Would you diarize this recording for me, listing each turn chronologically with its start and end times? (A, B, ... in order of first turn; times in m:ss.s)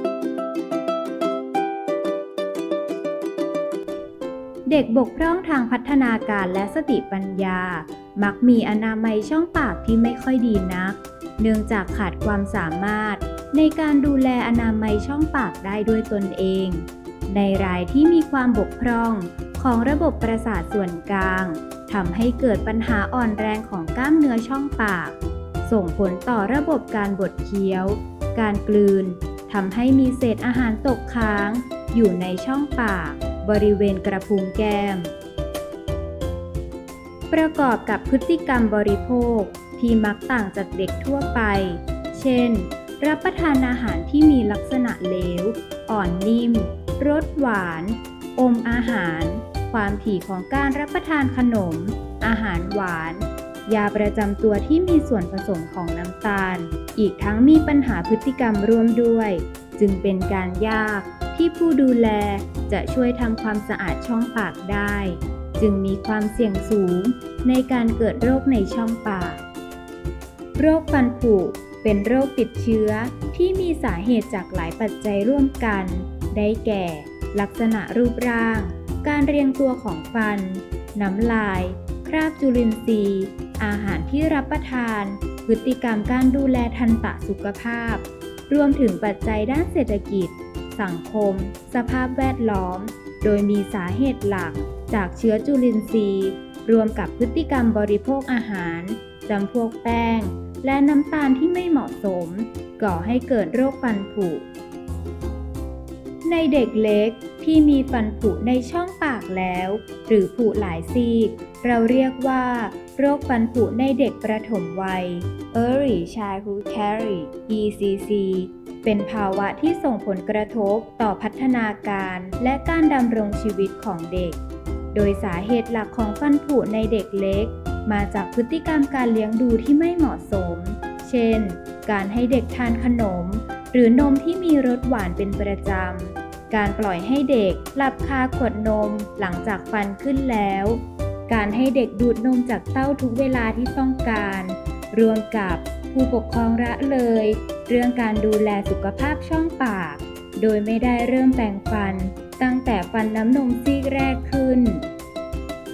0:04.7-0:35.1 A
0:37.3-1:09.4 A
1:10.6-1:44.5 A
1:46.2-2:04.4 A
2:04.9-2:34.8 A